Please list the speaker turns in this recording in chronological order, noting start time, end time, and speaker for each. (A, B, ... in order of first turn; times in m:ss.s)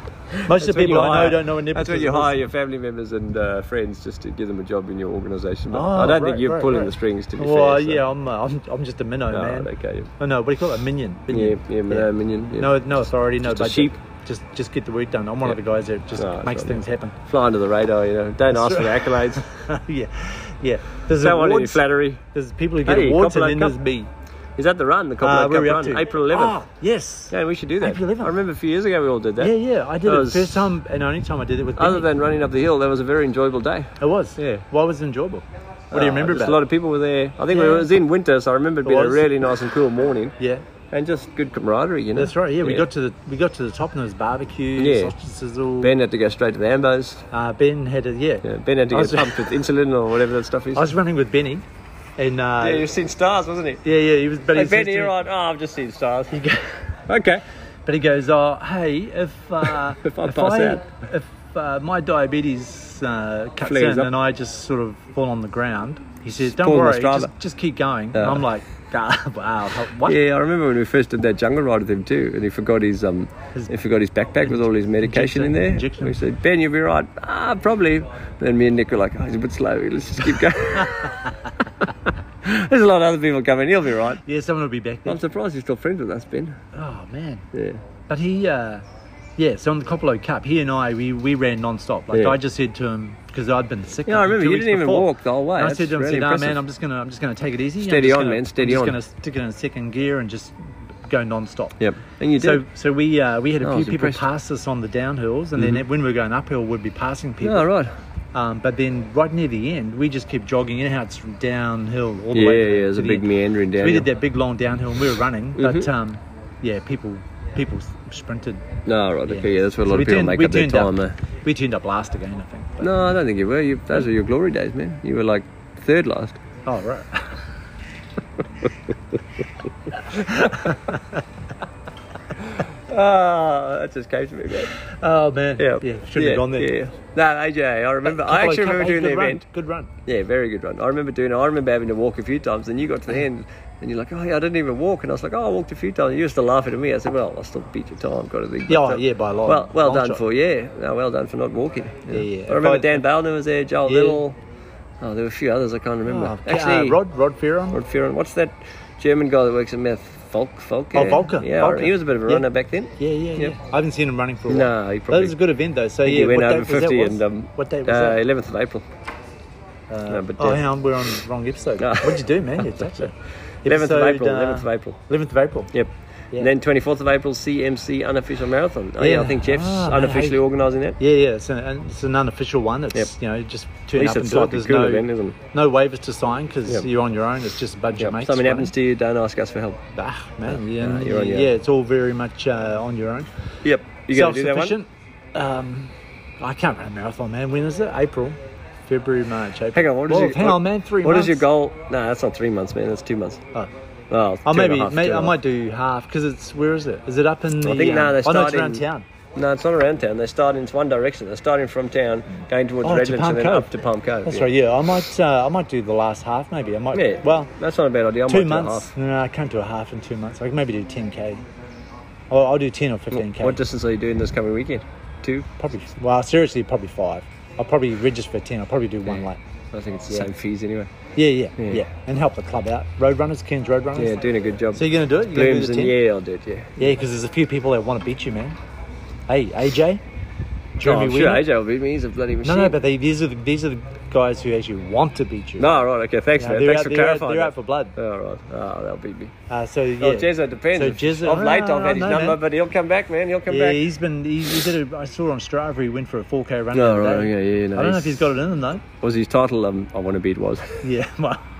0:00.3-0:08.0 A
0:00.4-0:02.4 B
0:05.7-0:17.2 B
0:09.3-0:10.1 A
0:11.3-0:12.8 A
0:13.4-0:14.0 A
0:16.1-0:19.4 A
0:18.5-0:24.1 B
0:21.2-0:22.2 A
0:22.8-0:23.8 A
0:24.6-0:26.6 A
0:25.2-0:28.4 B
0:27.3-0:30.7 A
0:29.4-0:32.1 B
0:31.8-0:34.6 A
0:34.0-0:36.6 B
0:35.9-0:40.4 A
0:37.5-0:37.9 B
0:38.8-0:39.3 B
0:40.4-0:40.6 B
0:40.9-0:42.8 A
0:42.1-0:46.0 B
0:44.8-0:45.1 A
0:45.8-0:47.2 A
0:47.3-0:49.5 B
0:48.4-0:50.9 A
0:50.7-0:51.6 B
0:52.2-0:52.9 B
0:52.6-0:53.8 A
0:53.8-0:55.2 B
0:54.5-0:56.4 A
0:56.3-0:56.8 B
0:57.1-0:57.4 A
0:57.8-1:10.2 B
0:59.6-1:00.8 A
1:03.6-1:04.1 A
1:06.4-1:07.3 A
1:08.1-1:08.4 A
1:10.0-1:21.2 A
1:14.5-1:16.2 B
1:22.4-1:24.2 A
1:24.2-1:25.2 B
1:25.0-1:26.6 A
1:26.7-1:27.4 B
1:27.5-1:27.8 A
1:28.1-1:28.8 B
1:29.4-1:41.8 B
1:32.1-1:32.4 A
1:34.1-1:36.6 A
1:37.8-1:39.0 A
1:41.8-1:42.6 A
1:42.4-1:47.7 B
1:43.6-1:44.2 A
1:45.6-1:45.8 A
1:47.4-1:47.9 A
1:48.3-1:58.6 B
1:52.3-1:54.1 A
1:55.6-1:55.9 A
1:58.8-2:01.2 A
1:59.3-2:03.0 B
2:02.8-2:06.4 A
2:06.6-2:07.4 B
2:10.1-2:11.0 B
2:12.9-2:14.7 A
2:14.8-2:16.7 B
2:15.6-2:19.4 A
2:18.0-2:19.9 B
2:20.0-2:34.4 A
2:28.7-2:30.2 B
2:32.1-2:33.0 B
2:33.8-2:34.2 B
2:35.0-2:37.0 A
2:36.0-2:37.8 B
2:37.7-2:43.6 A
2:40.9-2:48.2 B
2:44.5-2:45.4 A
2:46.0-2:48.8 A
2:49.9-2:53.1 B
2:50.1-2:50.6 A
2:51.8-2:53.1 A
2:53.6-2:55.7 B
2:53.6-2:55.0 A
2:55.7-3:01.0 A
2:59.0-3:00.4 B
3:01.0-3:08.7 B
3:03.9-3:05.4 A
3:08.0-3:09.8 A
3:09.9-3:13.3 B
3:10.4-3:11.5 A
3:13.6-3:14.8 A
3:14.1-3:21.4 B
3:19.7-3:23.4 A
3:24.1-3:25.3 A
3:24.4-3:29.0 B
3:27.6-3:28.8 A
3:29.3-3:34.5 A
3:32.8-3:33.7 B
3:34.2-3:37.5 B
3:36.9-3:38.9 A
3:38.3-3:41.4 B
3:42.3-3:43.6 B
3:43.1-3:45.5 A
3:45.6-3:49.4 B
3:49.0-3:50.9 A
3:51.2-3:56.0 B
3:51.6-3:51.8 A
3:54.0-3:56.8 A
3:56.8-3:58.6 B
3:59.3-4:00.0 B
4:00.8-4:01.4 B
4:00.8-4:02.8 A
4:02.4-4:05.8 B
4:05.6-4:09.3 A
4:06.4-4:07.9 B
4:09.5-4:12.4 B
4:10.0-4:13.8 A
4:13.5-4:18.8 B
4:16.7-4:18.3 A
4:19.0-4:20.9 A
4:20.8-4:21.4 B